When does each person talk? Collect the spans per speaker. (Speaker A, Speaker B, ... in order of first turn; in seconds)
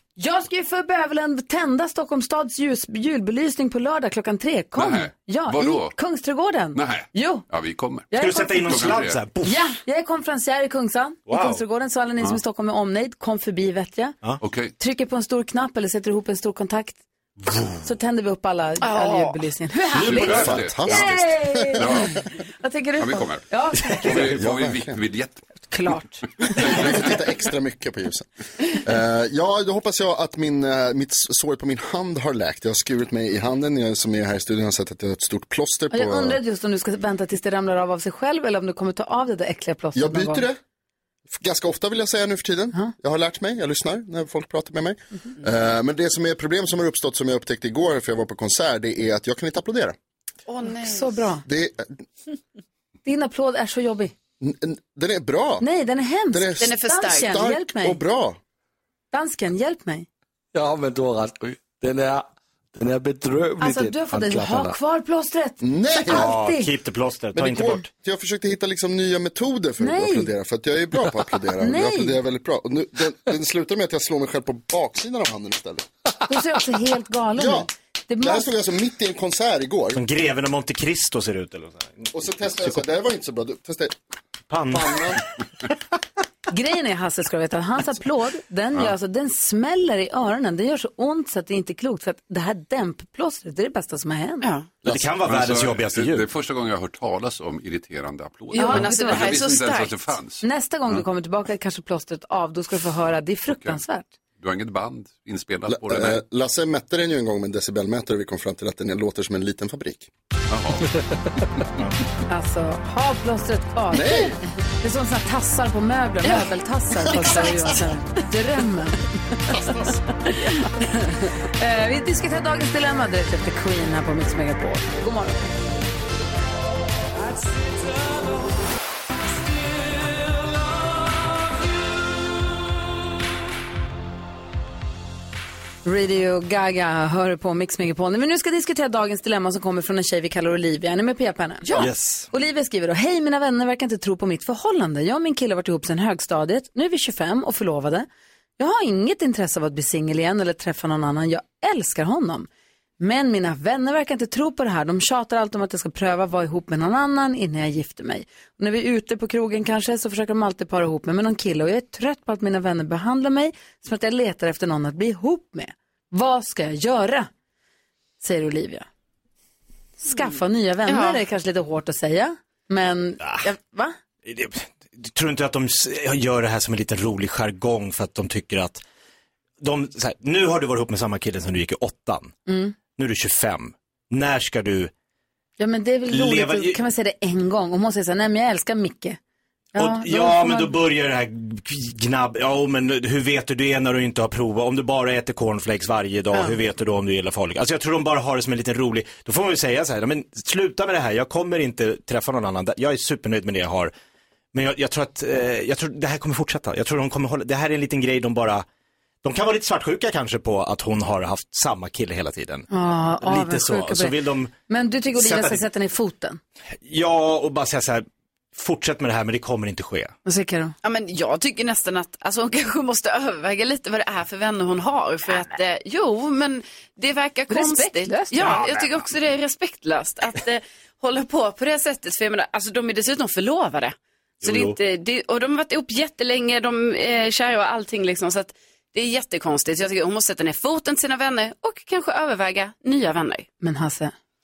Speaker A: 0.2-7.4, 8.1-8.9, 9.4-14.2, 14.8-17.0, 17.8-24.0, 25.7-26.8, 35.9-40.5, 50.6-51.4, 53.0-54.1, 55.6-58.0, 59.1-60.0, 63.6-66.7, 69.8-70.3, 71.6-72.2, 76.3-78.5, 86.5-94.5, 98.5-99.4, 100.4-104.1, 112.3-125.6, 135.8-148.1, 148.6-152.5, 153.0-167.3, 168.2-168.8, 170.0-173.9, 182.5-182.7, 185.6-189.2, 189.7-190.7, 212.7-214.2, 214.7-216.4, 220.2-220.7, 227.5-228.7, 243.6-244.1
Speaker B: 4.8-5.9, 6.7-9.2, 14.4-14.7, 19.9-22.2, 23.0-25.5, 95.2-101.0, 103.5-103.8, 104.4-106.2, 110.5-110.9
Speaker C: 8.1-9.6, 11.3-11.6, 66.1-67.8, 79.9-82.1, 84.5-85.1, 94.8-96.3, 141.8-142.3, 173.2-173.5, 174.2-178.8, 179.6-182.3, 182.9-184.9, 186.1-186.8, 189.8-203.9, 204.5-208.6, 209.2-212.7, 213.2-214.5, 215.2-215.6, 216.8-220.1, 234.4-234.8
Speaker D: 18.8-19.4, 50.5-51.2, 56.6-57.3, 94.4-94.7, 98.5-100.1, 117.1-117.8, 170.1-171.2, 220.8-243.5
Speaker E: 20.0-22.1, 24.1-25.0, 26.6-36.4, 39.9-40.6, 41.3-50.0, 51.5-52.0, 54.4-55.6, 56.3-58.4, 65.6-66.3, 67.3-75.9, 77.3-77.7, 78.2-80.0, 82.1-84.0, 84.7-85.2, 105.7-110.1, 113.9-114.4
Speaker F: 60.5-64.7